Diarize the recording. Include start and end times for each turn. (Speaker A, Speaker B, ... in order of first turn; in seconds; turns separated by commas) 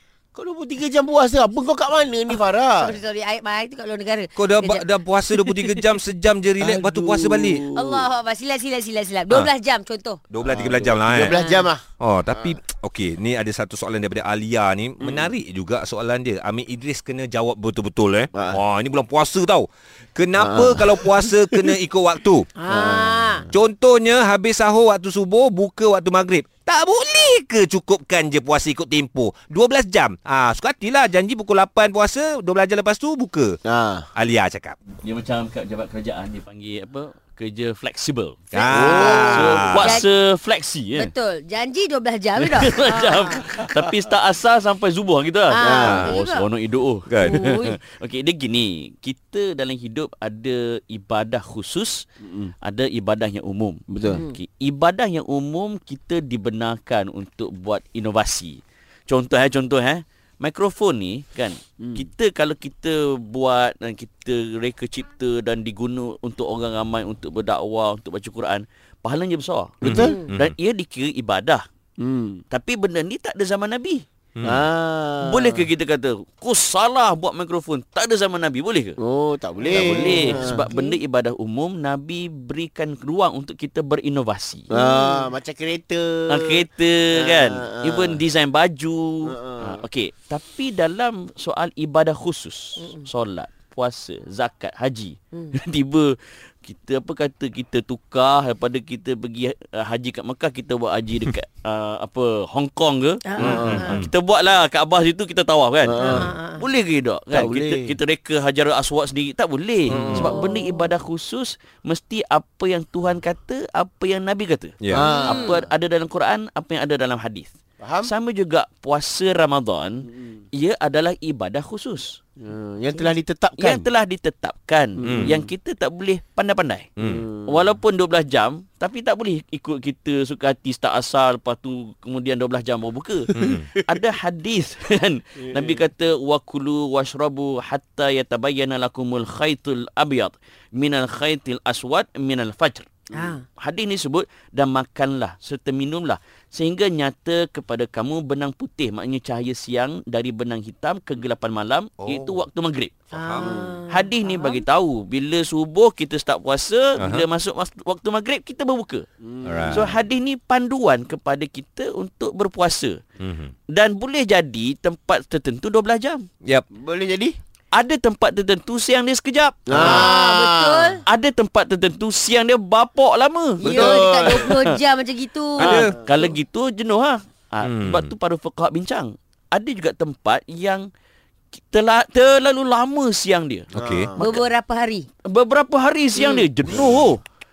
Speaker A: 0.3-3.0, Speaker B: 2.8-5.5, Speaker C: 4.4-7.6, Speaker A: 6.6-8.1, Speaker B: 7.7-10.2, Speaker C: 10.3-11.3, Speaker A: 10.4-12.6, Speaker B: 11.2-11.7, Speaker C: 12.0-22.5, Speaker A: 15.0-15.3, Speaker A: 18.3-18.6, Speaker A: 20.4-21.8, Speaker B: 22.6-23.4, Speaker A: 22.7-23.6, Speaker C: 23.5-33.6, Speaker A: 33.6-34.1, Speaker C: 34.1-34.8, Speaker D: 35.0-41.1, Speaker C: 38.5-40.0, Speaker B: 38.6-40.0, Speaker A: 38.7-39.4, Speaker B: 41.0-43.4, Speaker D: 42.4-52.0, Speaker B: 45.5-46.5, Speaker A: 45.6-46.1, Speaker C: 45.8-46.1, Speaker C: 47.1-47.5, Speaker B: 47.2-47.8, Speaker A: 52.2-52.5, Speaker D: 52.6-71.6, Speaker A: 53.9-54.2, Speaker B: 54.1-54.4, Speaker C: 69.8-70.5, Speaker A: 69.8-70.2, Speaker A: 72.0-72.4, Speaker D: 72.5-74.0, Speaker C: 74.3-74.6, Speaker A: 74.4-75.7, Speaker D: 75.2-79.0, Speaker A: 79.0-80.6, Speaker B: 79.6-81.0, Speaker D: 79.7-84.7, Speaker B: 84.7-85.3, Speaker A: 84.7-88.2, Speaker D: 86.3-117.5, Speaker A: 89.2-89.8, Speaker B: 92.8-93.1, Speaker B: 103.2-104.0, Speaker A: 103.4-104.0, Speaker C: 103.4-104.1, Speaker A: 105.8-106.3, Speaker B: 106.0-106.6, Speaker A: 107.3-107.9, Speaker C: 109.9-110.4, Speaker B: 110.1-110.9, Speaker C: 114.8-115.1, Speaker A: 114.9-115.6, Speaker B: 115.0-115.6, Speaker A: 117.8-118.1, Speaker D: 118.0-122.2, Speaker A: 120.0-120.4, Speaker A: 122.4-123.9, Speaker D: 123.6-126.9, Speaker A: 125.0-125.5, Speaker C: 125.0-125.3, Speaker C: 127.0-127.2, Speaker A: 127.0-127.6, Speaker D: 127.5-142.9, Speaker C: 133.3-133.7, Speaker A: 133.4-133.8, Speaker A: 135.4-135.8, Speaker A: 143.1-143.4, Speaker B: 143.1-143.4, Speaker D: 143.6-152.9, Speaker C: 152.0-152.3, Speaker C: 153.1-153.5, Speaker B: 153.1-154.6, Speaker A: 153.4-153.8, Speaker D: 153.9-159.1, Speaker C: 157.0-157.2, Speaker A: 159.2-159.8, Speaker C: 159.4-159.9, Speaker D: 159.7-163.0, Speaker C: 163.2-163.5, Speaker D: 163.7-166.2, Speaker A: 166.7-167.4, Speaker D: 167.7-170.1, Speaker A: 169.7-171.0, Speaker C: 169.7-170.1, Speaker B: 169.8-171.0, Speaker D: 171.1-174.7, Speaker A: 173.6-174.5, Speaker B: 173.6-175.8, Speaker C: 175.6-175.9, Speaker D: 175.6-180.9, Speaker A: 175.7-176.3, Speaker C: 177.6-178.1, Speaker D: 181.5-183.7, Speaker A: 183.7-184.4, Speaker C: 183.7-184.1, Speaker B: 184.2-185.1, Speaker D: 185.2-187.2, Speaker B: 186.2-186.4